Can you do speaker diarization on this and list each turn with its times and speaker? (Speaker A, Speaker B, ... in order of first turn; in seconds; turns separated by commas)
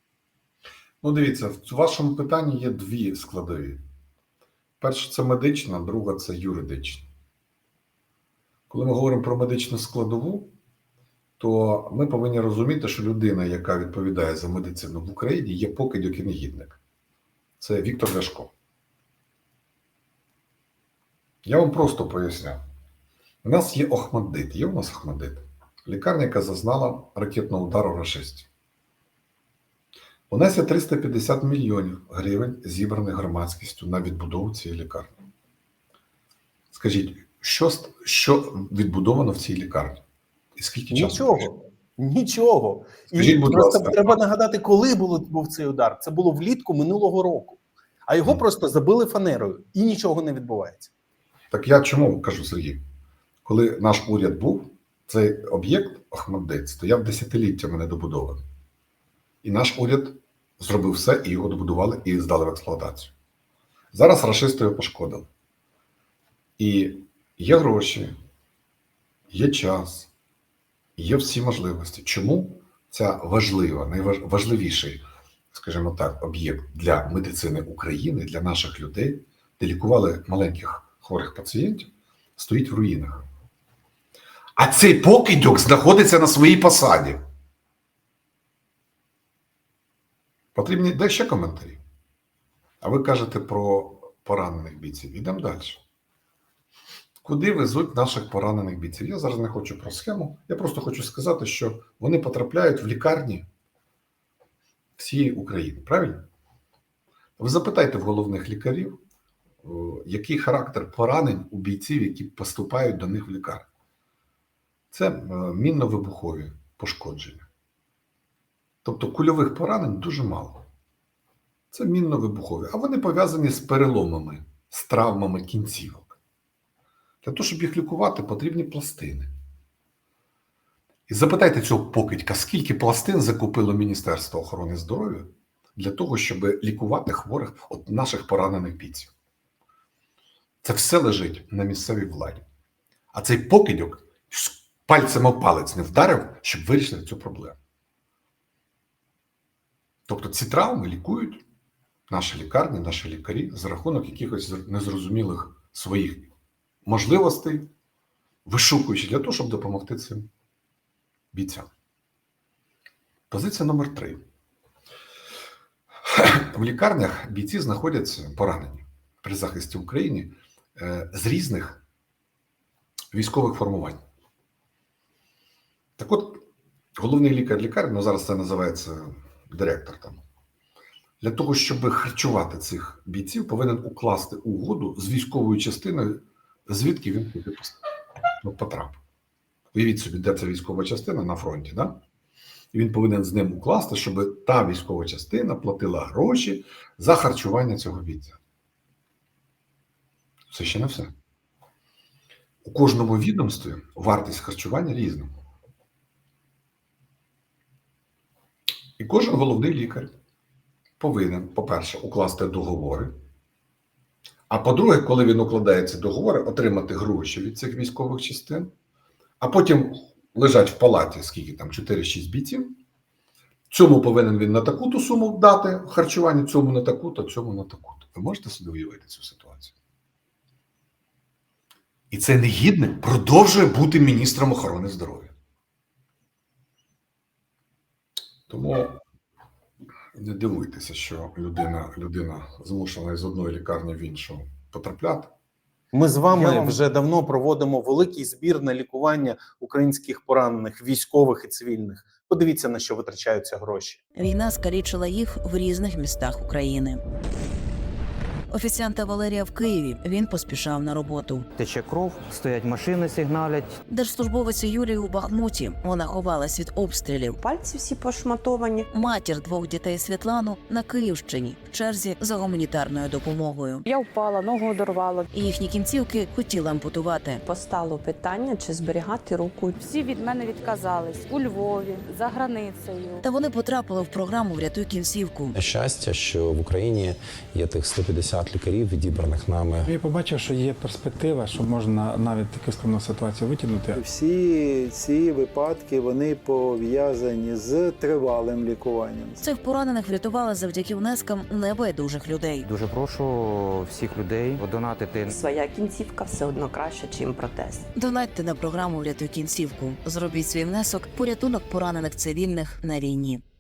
Speaker A: 1.0-3.8, Speaker A: 4.8-7.1, Speaker A: 8.7-10.5, Speaker A: 11.4-16.8, Speaker A: 17.6-18.5, Speaker A: 21.4-22.6, Speaker A: 23.4-28.5, Speaker A: 30.3-35.1, Speaker A: 36.7-40.0, Speaker A: 40.6-41.5, Speaker B: 40.9-50.9, Speaker A: 43.1-44.1, Speaker A: 51.5-52.8, Speaker A: 53.5-58.4, Speaker A: 59.4-63.1, Speaker A: 63.9-65.3, Speaker A: 66.6-68.1, Speaker A: 69.3-70.1, Speaker A: 71.0-83.2, Speaker A: 84.6-87.2, Speaker A: 90.5-91.8, Speaker A: 92.8-95.8, Speaker A: 97.2-103.5, Speaker A: 105.0-106.2, Speaker A: 107.4-109.0, Speaker A: 109.6-113.7, Speaker A: 114.9-117.5, Speaker A: 118.8-120.7, Speaker A: 121.7-126.2, Speaker A: 127.2-129.3, Speaker A: 131.1-139.1, Speaker A: 140.6-142.4, Speaker A: 143.1-147.6, Speaker A: 150.1-151.4, Speaker A: 152.1-156.3, Speaker A: 156.8-157.7, Speaker A: 158.5-160.3, Speaker A: 161.3-161.7, Speaker A: 163.3-164.2, Speaker A: 166.1-171.8, Speaker A: 173.1-174.0, Speaker A: 176.0-176.4, Speaker A: 177.0-180.2, Speaker A: 181.2-187.8, Speaker A: 188.4-189.0, Speaker A: 189.7-192.0, Speaker A: 192.7-198.4, Speaker A: 200.5-201.1, Speaker A: 202.6-205.3, Speaker A: 209.0-210.1, Speaker A: 211.0-213.1, Speaker A: 214.5-218.7, Speaker A: 219.4-222.8, Speaker A: 223.7-229.7, Speaker A: 232.1-235.3, Speaker A: 238.5-239.0, Speaker A: 240.2-245.3, Speaker B: 245.9-254.0, Speaker C: 254.2-257.0, Speaker C: 258.5-261.4, Speaker D: 261.6-263.8, Speaker C: 263.9-267.4, Speaker E: 267.4-268.8, Speaker C: 268.9-273.8, Speaker F: 273.9-275.3, Speaker C: 275.3-277.4, Speaker E: 277.5-279.8, Speaker F: 279.8-283.2, Speaker C: 283.2-285.6, Speaker G: 285.5-289.9, Speaker H: 289.9-294.0, Speaker I: 294.1-299.2, Speaker C: 299.4-302.7, Speaker D: 302.6-305.4, Speaker E: 305.5-307.7, Speaker C: 307.9-313.4